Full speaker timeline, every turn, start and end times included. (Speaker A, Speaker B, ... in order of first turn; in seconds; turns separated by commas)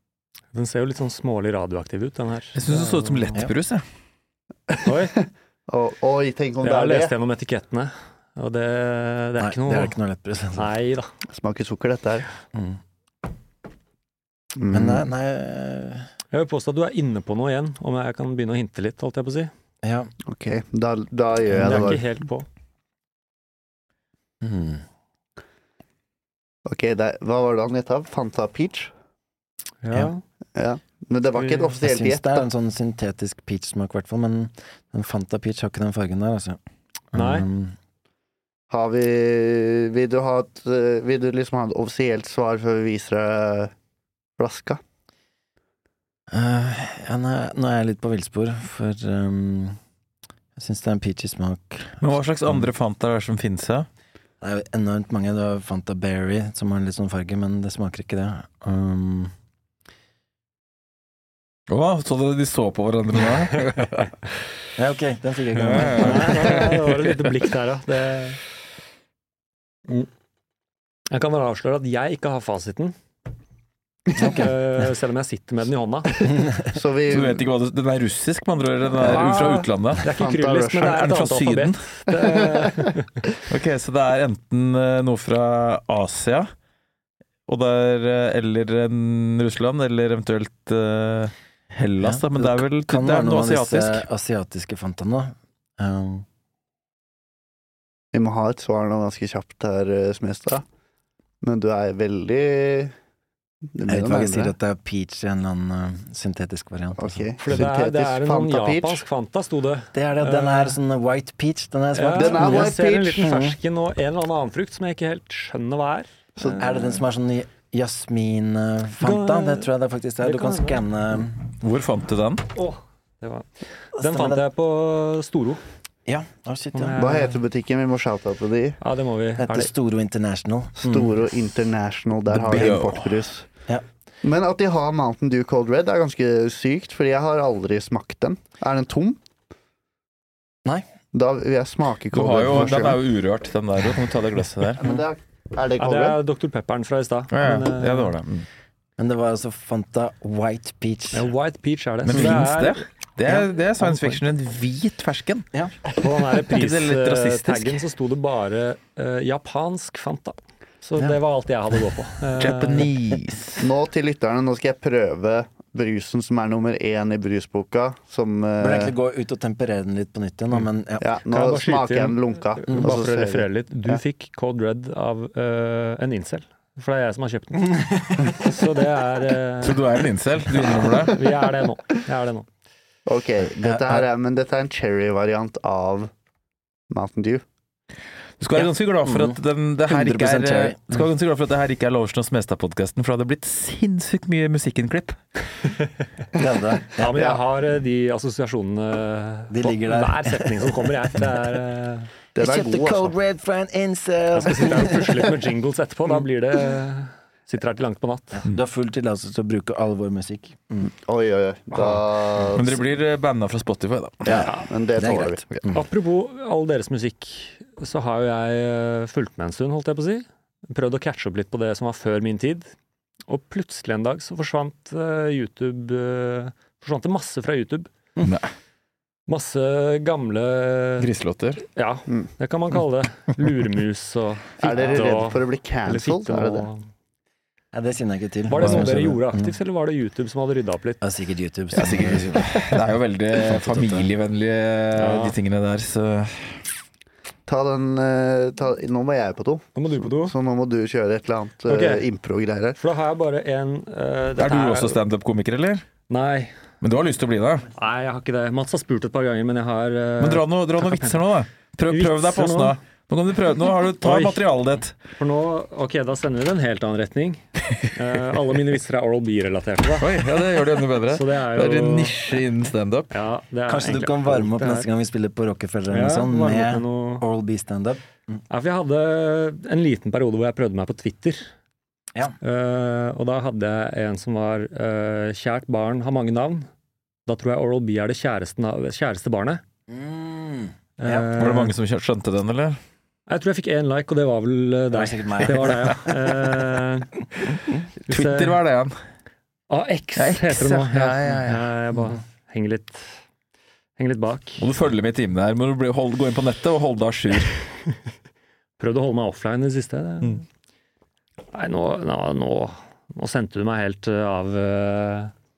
Speaker A: 0.5-3.4, Speaker B: 2.5-3.8, Speaker C: 4.7-7.1, Speaker A: 4.8-5.1, Speaker A: 6.6-9.9, Speaker D: 9.4-10.7, Speaker A: 10.5-11.1, Speaker C: 11.3-12.3, Speaker D: 12.5-12.8, Speaker C: 14.6-15.1, Speaker D: 14.7-16.1, Speaker A: 16.3-19.5, Speaker D: 19.8-20.1, Speaker C: 20.2-22.0, Speaker A: 21.5-22.4, Speaker D: 21.5-21.9, Speaker D: 24.4-24.8, Speaker C: 26.6-28.9, Speaker A: 29.8-30.2, Speaker C: 30.6-32.5, Speaker A: 31.4-31.7, Speaker D: 31.8-36.6, Speaker D: 37.1-37.8, Speaker A: 37.1-37.5, Speaker C: 38.7-43.7, Speaker C: 44.4-44.8, Speaker D: 46.3-49.8, Speaker D: 50.5-52.7, Speaker B: 52.0-53.9, Speaker D: 54.4-59.3, Speaker B: 61.7-64.2, Speaker D: 64.8-66.7, Speaker B: 65.5-67.2, Speaker A: 65.8-68.4, Speaker A: 71.1-73.0, Speaker D: 74.2-74.5, Speaker A: 74.2-76.3, Speaker D: 76.3-76.6, Speaker C: 76.7-77.4, Speaker B: 77.1-80.1, Speaker C: 79.0-81.1, Speaker A: 79.0-83.1, Speaker B: 80.8-81.9, Speaker C: 82.2-82.9, Speaker B: 83.5-86.5, Speaker B: 87.5-94.0, Speaker D: 92.0-96.2, Speaker C: 98.1-100.6, Speaker C: 101.4-102.9, Speaker C: 103.7-104.5, Speaker D: 103.8-107.2, Speaker C: 107.0-109.0, Speaker A: 107.4-110.8, Speaker D: 109.9-113.6, Speaker A: 111.9-116.8, Speaker C: 112.1-113.3, Speaker C: 116.4-116.7, Speaker D: 116.6-121.4, Speaker A: 119.0-119.7, Speaker A: 120.2-120.8, Speaker B: 121.6-122.5, Speaker A: 122.5-125.6, Speaker D: 124.0-124.4, Speaker D: 126.0-127.0, Speaker A: 126.7-127.4, Speaker C: 127.0-128.8, Speaker A: 128.8-129.7, Speaker D: 129.4-131.1, Speaker C: 130.8-133.5, Speaker B: 132.3-133.2, Speaker C: 134.2-139.2, Speaker C: 141.1-143.0, Speaker B: 142.1-144.8, Speaker C: 144.8-146.2, Speaker A: 145.8-148.1, Speaker B: 147.3-148.4, Speaker D: 149.0-151.3, Speaker A: 151.1-152.8, Speaker B: 152.0-155.4, Speaker D: 152.1-152.5, Speaker A: 153.8-154.2, Speaker A: 155.9-162.9, Speaker B: 156.5-157.8, Speaker B: 162.4-163.6, Speaker C: 163.6-168.9, Speaker D: 168.6-171.0, Speaker C: 171.0-174.0, Speaker A: 171.3-179.8, Speaker B: 179.6-181.2, Speaker A: 180.8-182.5, Speaker C: 183.1-186.1, Speaker D: 183.6-184.0, Speaker C: 186.9-187.4, Speaker B: 188.4-195.2, Speaker D: 188.6-191.0, Speaker D: 196.3-197.2, Speaker A: 197.0-202.1, Speaker D: 199.5-201.2, Speaker C: 202.3-203.1, Speaker D: 202.4-205.3, Speaker A: 204.3-208.4, Speaker D: 208.4-210.9, Speaker C: 210.8-212.8, Speaker B: 212.5-214.4, Speaker C: 214.2-215.4, Speaker D: 215.0-215.8, Speaker A: 215.7-222.7, Speaker A: 223.3-227.9, Speaker B: 228.2-228.5, Speaker A: 229.3-231.1, Speaker B: 231.0-231.6, Speaker A: 231.6-236.8, Speaker C: 234.6-236.7, Speaker D: 237.7-239.5, Speaker A: 238.5-241.0, Speaker B: 238.6-238.9, Speaker D: 241.0-244.1, Speaker B: 241.7-246.6, Speaker A: 244.9-245.3, Speaker C: 247.5-252.8, Speaker A: 249.7-250.3, Speaker A: 251.7-252.0, Speaker A: 252.8-255.0, Speaker B: 254.4-255.8, Speaker A: 256.1-256.5, Speaker B: 256.8-257.7, Speaker A: 257.7-261.2, Speaker B: 260.2-265.0, Speaker A: 261.9-262.8, Speaker A: 264.0-264.4, Speaker A: 265.1-270.1, Speaker B: 270.0-273.1, Speaker A: 271.1-272.2, Speaker A: 273.1-274.9, Speaker D: 273.7-278.4, Speaker A: 275.9-277.2, Speaker A: 278.5-281.5, Speaker A: 282.4-286.7, Speaker A: 287.2-289.6, Speaker D: 289.9-291.4, Speaker A: 291.0-291.7, Speaker B: 291.4-292.8, Speaker A: 293.3-297.3, Speaker D: 294.9-296.1, Speaker A: 298.1-298.6, Speaker B: 298.1-298.9, Speaker A: 299.7-303.1, Speaker B: 300.1-301.7, Speaker A: 304.0-304.6, Speaker B: 304.6-307.5, Speaker A: 308.8-310.4, Speaker A: 311.5-315.3